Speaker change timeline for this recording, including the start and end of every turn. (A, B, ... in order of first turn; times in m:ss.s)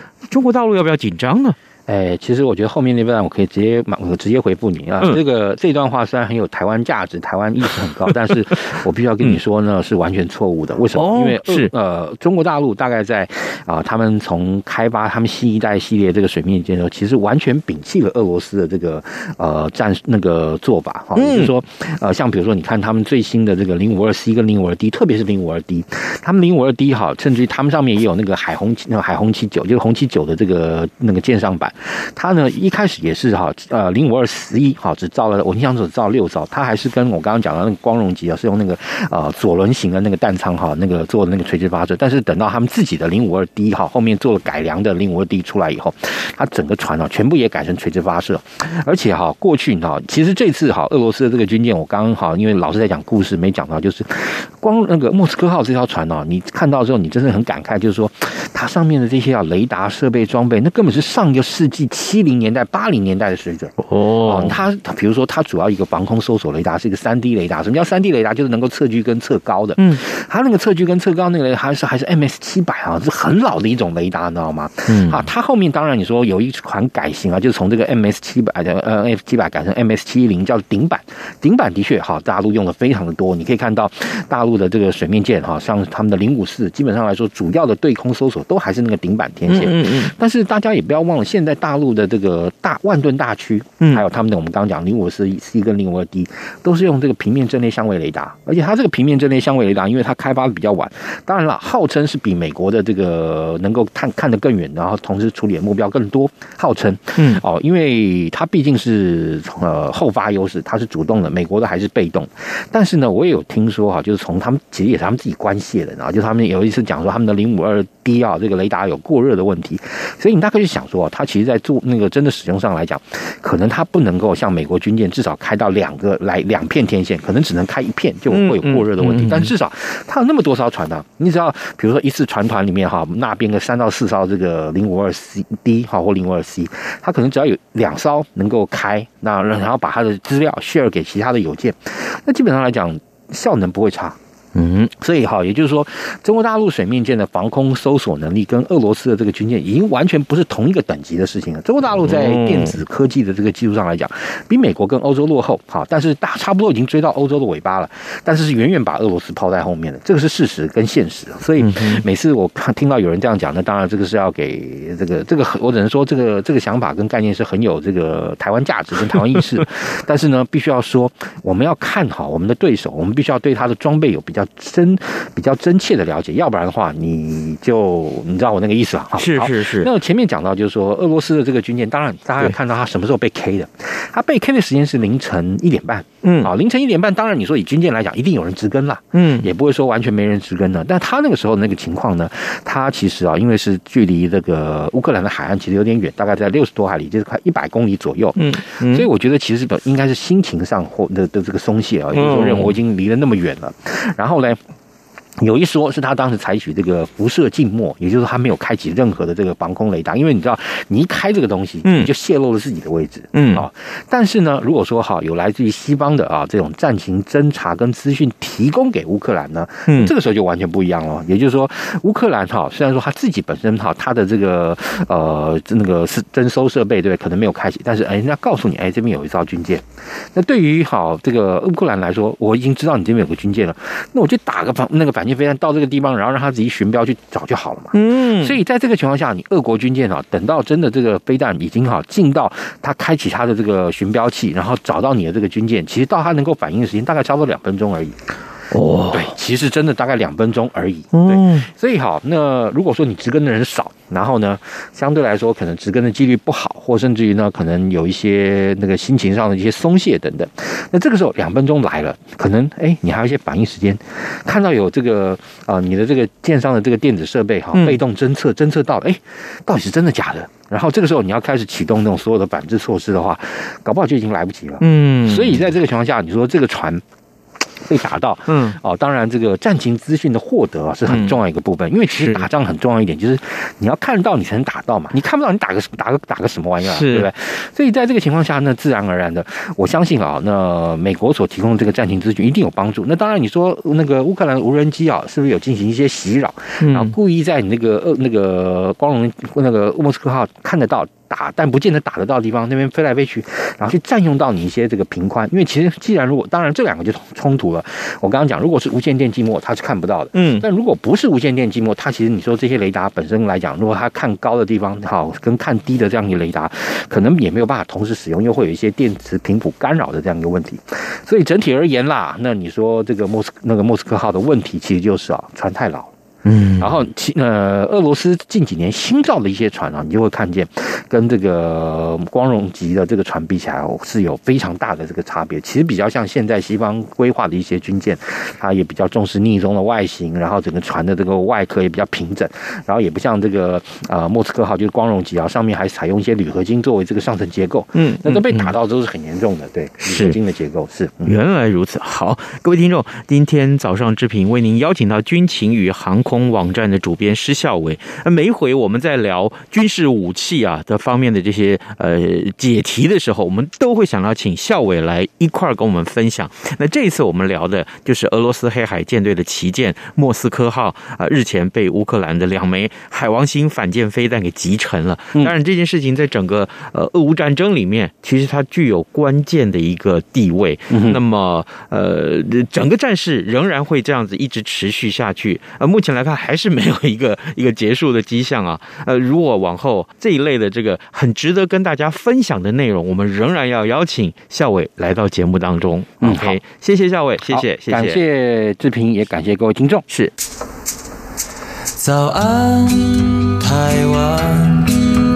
0:00.2-0:01.6 A
0:01.9-2:24.2 B
0:10.9-0:11.7 A
0:21.2-0:21.5 A
1:03.8-1:04.6 A
1:14.9-1:15.3 A
1:29.5-1:30.1 A
1:47.2-1:47.4 A
2:08.3-2:09.5 A
2:24.5-2:24.9 A
2:25.0-3:24.6 B
2:32.0-2:32.8 A
2:41.6-2:42.0 A
2:59.2-2:59.9 A
3:06.2-3:06.5 A
3:09.1-3:09.5 A
3:18.4-3:19.0 A
3:22.1-3:22.7 A
3:25.4-4:08.2 B
3:31.8-3:32.1 A
3:33.3-3:33.6 A
3:57.9-3:58.6 A
4:08.7-4:09.3 A
4:09.1-4:37.0 B
4:11.1-4:11.7 A
4:27.7-4:28.0 A
4:34.8-4:35.6 A
4:37.8-5:26.1 B
4:38.5-4:38.8 A
4:41.1-4:41.4 A
4:42.2-4:42.4 A
4:46.8-4:47.3 A
4:56.8-4:57.1 A
5:10.3-5:10.6 A
5:26.4-5:26.9 A
5:26.8-5:51.4 B
5:47.9-5:48.7 A
5:50.0-5:50.4 A
5:51.2-6:38.2 A
6:20.9-6:21.2 B
6:36.2-6:36.6 B
6:37.5-6:40.0 B
6:42.0-6:45.1 C